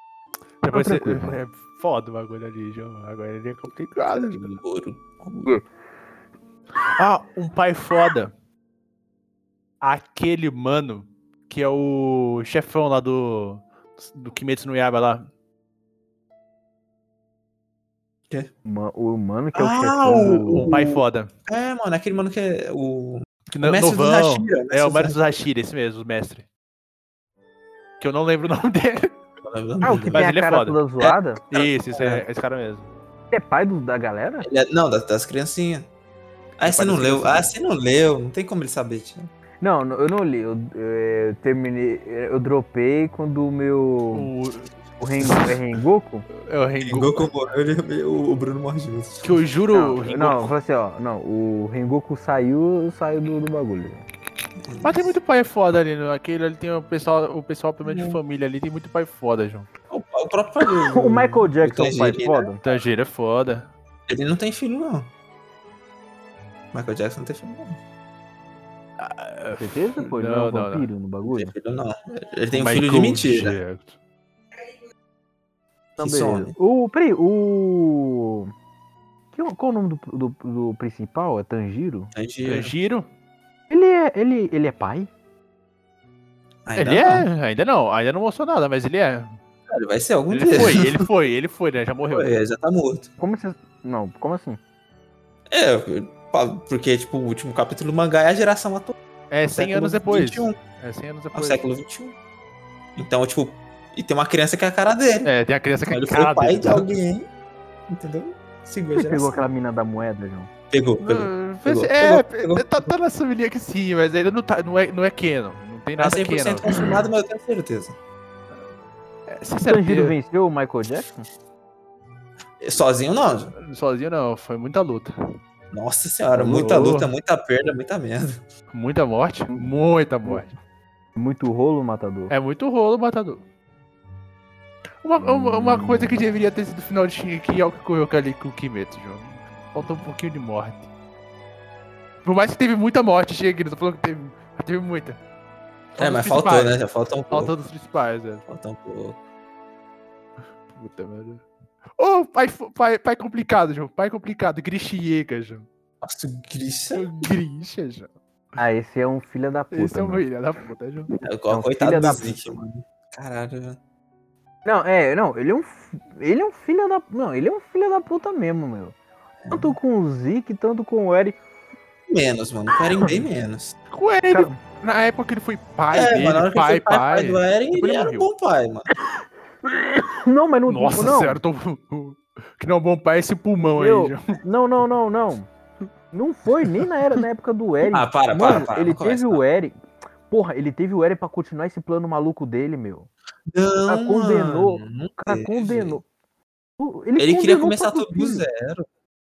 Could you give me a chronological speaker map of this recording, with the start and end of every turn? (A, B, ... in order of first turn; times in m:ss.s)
0:00.6-0:04.6 A
0:00.7-0:01.4 B
0:04.1-0:05.6 C
0:06.8-0:08.3 A
0:09.8-0:15.3 A
0:18.6-0:21.0 B
0:19.5-0:25.2 C
0:20.4-0:21.3 A
0:23.5-0:26.4 A
0:28.0-0:29.2 A
0:29.4-0:30.3 C
0:29.8-0:31.4 B
0:30.1-0:30.8 A
0:31.0-0:32.2 C
0:31.5-0:32.9 A
0:33.3-0:34.5 B
0:34.4-0:35.9 C
0:36.6-0:39.3 C
0:36.6-0:37.5 A
0:39.6-0:44.3 B
0:44.1-0:44.7 A
0:45.0-0:46.3 B
0:46.4-0:47.3 A
0:46.8-0:49.4 C
0:49.2-0:50.6 A
0:49.7-0:54.0 B
0:54.6-0:55.2 C
0:54.8-0:59.7 A
0:57.8-0:58.2 C
0:59.9-1:02.5 C
1:00.7-1:02.7 B
1:02.6-1:03.7 A
1:04.1-1:05.1 C
1:06.7-1:07.8 C
1:09.0-1:10.9 A
1:09.5-1:11.5 B
1:11.3-1:13.6 C
1:12.5-1:14.0 A
1:16.0-1:16.6 C
1:16.0-1:18.5 B
1:19.3-1:22.1 B
1:22.1-1:22.7 C
1:22.4-1:23.1 A
1:23.7-1:25.1 B
1:26.6-1:27.3 C
1:26.8-1:29.4 A
1:29.7-1:31.0 C
1:30.3-1:32.4 A
1:32.1-1:33.1 C
1:33.2-1:34.6 B
1:35.5-1:39.0 C
1:39.3-1:41.7 A
1:39.5-1:40.6 C
1:41.3-1:42.2 C
1:43.0-1:45.3 C
1:45.2-1:46.9 A
1:45.9-1:47.3 C
1:47.9-1:49.4 C
1:48.9-1:50.5 B
1:50.7-1:52.9 C
1:51.0-1:56.9 A
1:56.0-1:58.0 C
1:59.3-2:00.2 A
1:59.6-2:01.3 B
2:02.6-2:03.6 C
2:03.6-2:05.1 A
2:05.7-2:08.4 C
2:06.3-2:06.9 B
2:06.6-2:07.1 A
2:08.7-2:10.5 A
2:11.1-2:12.3 B
2:12.3-2:13.4 A
2:15.0-2:20.9 A
2:15.2-2:16.2 B
2:22.2-2:25.2 A
2:26.0-2:26.8 A
2:26.0-2:27.6 C
2:27.3-2:28.4 A
2:28.5-2:29.2 C
2:30.7-2:31.4 A
2:32.0-2:35.6 A
2:36.0-2:37.3 C
2:36.9-2:38.1 A
2:38.6-2:40.2 B
2:39.7-2:41.1 A
2:41.2-2:43.8 C
2:41.5-2:42.6 B
2:44.6-2:49.0 B
2:49.4-2:49.8 C
2:49.5-2:51.4 B
2:52.1-2:53.8 C
2:53.9-2:58.3 A
2:54.3-2:54.6 B
2:55.9-2:58.9 C
3:00.0-3:01.4 B
3:00.7-3:04.4 A
3:03.6-3:05.5 B
3:06.1-3:09.8 B
3:07.9-3:09.4 C
3:10.3-3:13.1 B
3:13.5-3:16.0 C
3:13.9-3:16.0 B
3:16.8-3:18.4 B
3:17.2-3:18.9 C